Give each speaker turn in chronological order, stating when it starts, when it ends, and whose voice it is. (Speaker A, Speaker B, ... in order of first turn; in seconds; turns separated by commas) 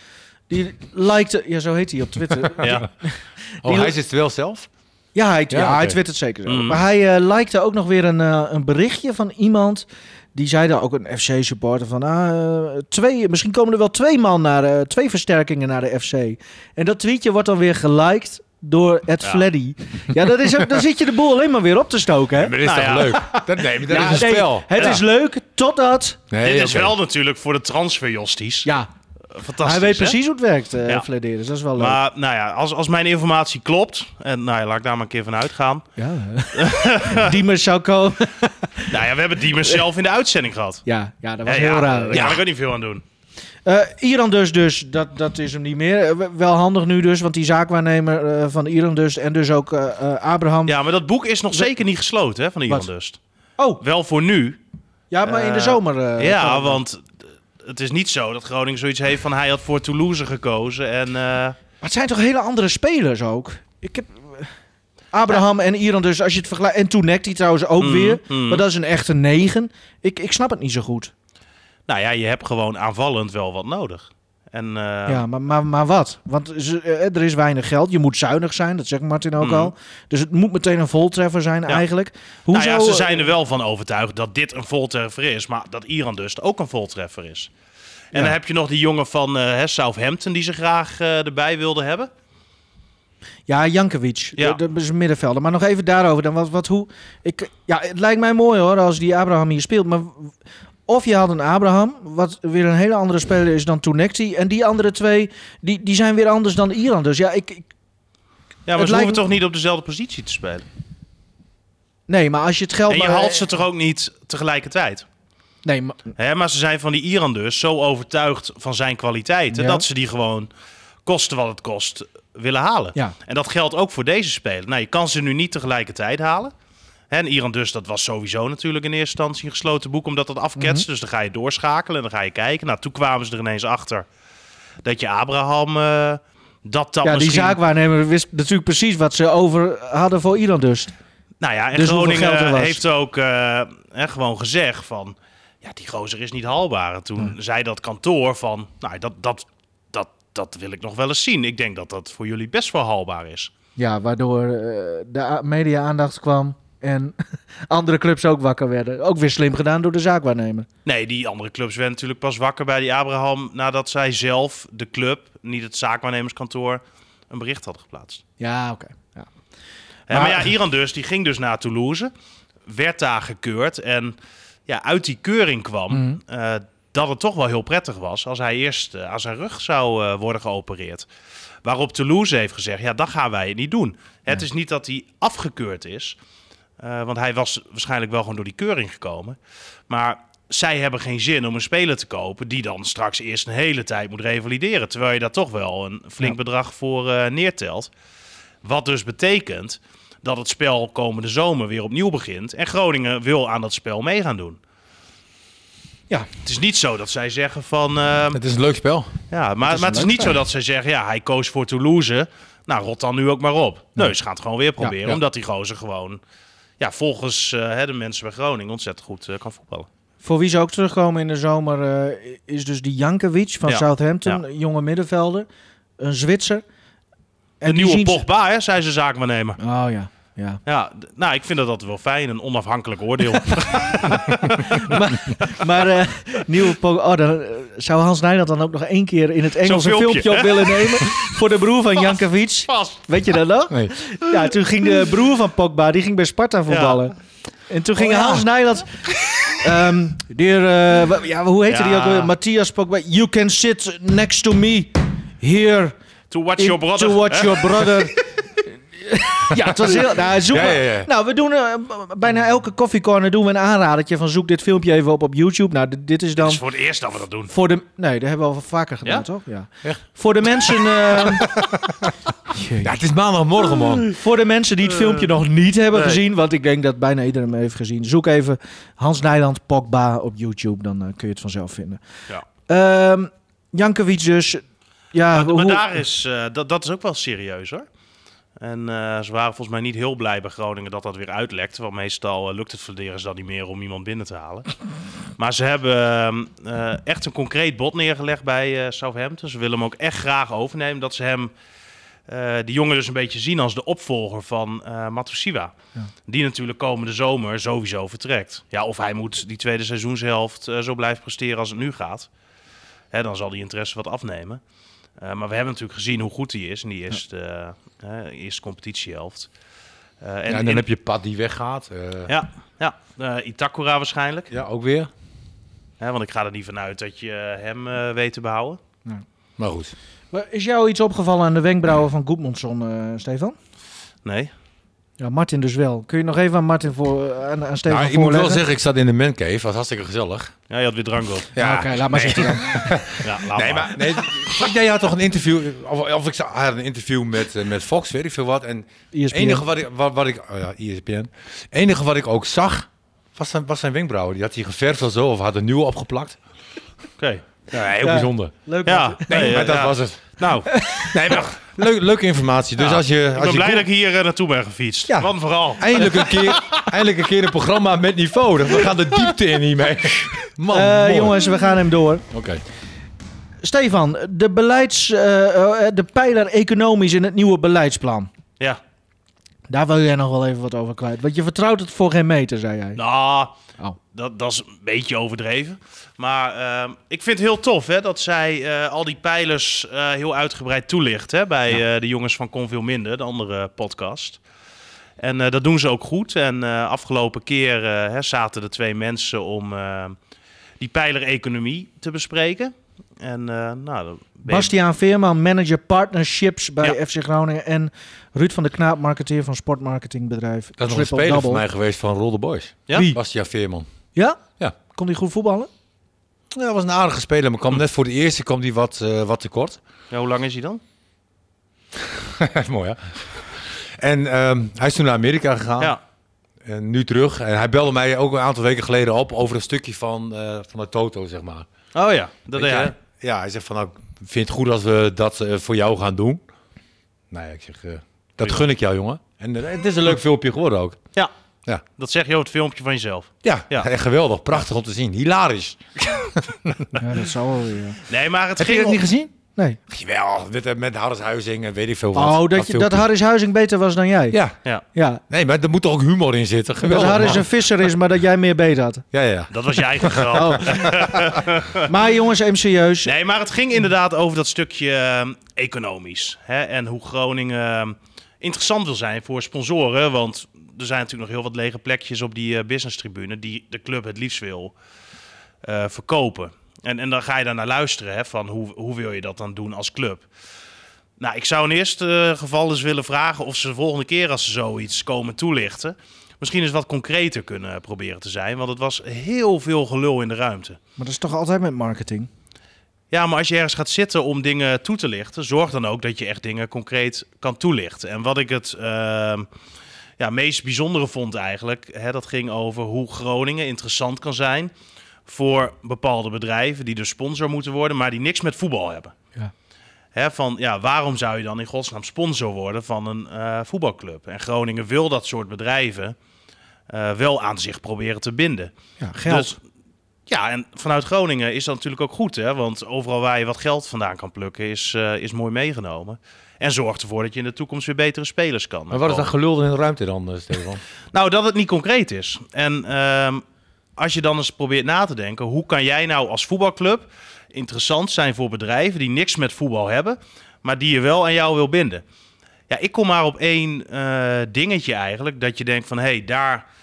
Speaker A: 0.5-3.9, Speaker B: 2.6-2.9, Speaker C: 3.6-4.7, Speaker A: 5.1-22.6, Speaker C: 5.5-6.0, Speaker B: 6.5-6.8, Speaker C: 22.3-24.9, Speaker B: 22.6-23.2, Speaker A: 23.1-26.2, Speaker C: 26.3-26.9, Speaker B: 26.4-28.7, Speaker B: 29.4-30.2, Speaker A: 29.6-32.0, Speaker B: 31.8-35.9, Speaker A: 36.0-38.9, Speaker B: 36.5-37.4, Speaker B: 38.9-40.8, Speaker A: 40.9-42.3, Speaker B: 41.5-43.0, Speaker C: 42.1-42.4, Speaker A: 43.7-50.8, Speaker B: 50.7-53.2, Speaker B: 53.8-54.6, Speaker A: 55.1-56.8, Speaker B: 55.2-57.1, Speaker B: 57.6-61.6, Speaker A: 61.8-64.5, Speaker A: 65.1-71.1, Speaker B: 67.8-68.6, Speaker B: 71.9-75.2, Speaker A: 75.1-83.3, Speaker B: 79.4-79.7, Speaker B: 82.5-87.5, Speaker B: 88.1-92.1, Speaker A: 93.5-100.3, Speaker A: 100.9-107.7, Speaker B: 108.7-110.6, Speaker A: 108.8-109.2, Speaker A: 112.1-113.5, Speaker B: 112.9-115.0, Speaker A: 115.6-116.0, Speaker B: 116.2-120.5, Speaker A: 119.5-119.8, Speaker B: 121.1-126.5, Speaker B: 127.1-134.1, Speaker A: 130.6-130.8, Speaker B: 134.8-137.6, Speaker A: 137.0-140.9, Speaker B: 141.4-153.5, Speaker A: 141.7-142.8, Speaker A: 153.8-157.2, Speaker A: 157.7-160.7, Speaker B: 160.9-168.2, Speaker A: 168.4-169.3, Speaker B: 170.1-172.1, Speaker A: 170.1-170.5, Speaker B: 172.7-174.1, Speaker B: 174.7-181.1, Speaker A: 175.9-176.2, Speaker B: 181.6-186.2, Speaker B: 186.8-189.4, Speaker B: 189.9-197.9, Speaker B: 198.6-204.6, Speaker B: 206.4-208.4, Speaker C: 208.3-209.1, Speaker B: 209.3-216.2, Speaker A: 209.7-210.3, Speaker B: 216.8-219.9, Speaker A: 220.2-225.5, Speaker B: 223.7-224.4, Speaker A: 226.0-226.6, Speaker A: 227.6-228.2, Speaker B: 227.7-229.6, Speaker A: 229.6-230.6, Speaker B: 230.7-235.6, Speaker A: 233.9-247.1, Speaker B: 239.6-241.2, Speaker B: 242.7-243.0, Speaker B: 246.7-247.1, Speaker A: 247.7-248.9, Speaker B: 248.0-248.4, Speaker A: 249.4-255.9, Speaker B: 251.7-252.3, Speaker B: 256.3-258.2, Speaker A: 256.6-266.6, Speaker C: 260.5-261.1, Speaker B: 266.4-267.5, Speaker A: 267.5-271.5, Speaker C: 271.3-272.1, Speaker A: 272.5-272.9, Speaker C: 272.8-274.1, Speaker A: 274.1-282.0, Speaker A: 282.7-284.6, Speaker A: 285.1-285.9, Speaker B: 285.3-287.9, Speaker B: 288.6-294.7, Speaker B: 295.4-301.5, Speaker B: 302.3-305.7, Speaker B: 306.3-312.3, Speaker B: 313.1-314.6, Speaker B: 315.2-319.5, Speaker B: 320.2-320.9, Speaker C: 320.5-322.3, Speaker B: 322.3-324.5, Speaker C: 324.5-325.1, Speaker B: 326.0-328.8, Speaker C: 329.6-329.9, Speaker A: 330.3-333.6, Speaker B: 334.2-334.5, Speaker A: 335.2-338.6, Speaker C: 337.9-340.5, Speaker B: 340.7-341.6, Speaker C: 341.6-356.4, Speaker A: 341.6-343.1, Speaker B: 343.2-344.3, Speaker A: 349.1-349.6, Speaker B: 357.2-357.4, Speaker C: 357.7-358.5, Speaker A: 358.0-359.7, Speaker B: 358.9-360.9, Speaker C: 359.3-360.2, Speaker A: 360.7-361.1, Speaker C: 361.0-363.9, Speaker B: 362.8-366.8, Speaker C: 365.8-371.4, Speaker A: 370.7-372.2, Speaker C: 372.3-372.6, Speaker A: 373.6-378.3, Speaker A: 379.7-383.0, Speaker B: 382.9-383.5, Speaker B: 384.1-394.4, Speaker B: 395.2-400.2, Speaker B: 400.8-404.7, Speaker A: 404.5-411.6, Speaker C: 410.8-413.9, Speaker A: 414.9-415.7, Speaker C: 416.5-419.8, Speaker B: 420.1-420.8, Speaker C: 422.0-425.9, Speaker C: 426.6-431.7, Speaker B: 431.9-432.9, Speaker C: 432.6-436.4, Speaker C: 437.3-441.0, Speaker B: 442.0-443.9, Speaker C: 443.4-447.0, Speaker A: 447.0-448.0, Speaker B: 448.1-449.0, Speaker C: 448.6-449.1, Speaker A: 449.0-449.8, Speaker C: 449.9-453.1, Speaker A: 452.1-454.4, Speaker C: 454.3-454.6, Speaker A: 454.9-455.2, Speaker C: 455.3-457.5, Speaker A: 456.8-459.0, Speaker C: 459.1-461.4, Speaker B: 459.5-461.9, Speaker A: 460.3-460.9, Speaker A: 461.8-463.1, Speaker B: 463.1-474.7, Speaker B: 475.6-480.3, Speaker B: 481.2-490.8, Speaker A: 491.0-492.3, Speaker B: 493.1-499.5, Speaker B: 500.2-504.7, Speaker B: 505.3-509.1, Speaker B: 510.1-516.1, Speaker B: 516.9-518.7, Speaker A: 519.0-519.6, Speaker B: 519.3-519.6, Speaker B: 520.3-529.3, Speaker C: 528.9-530.8, Speaker B: 531.1-533.4, Speaker B: 534.0-542.0, Speaker B: 542.7-546.6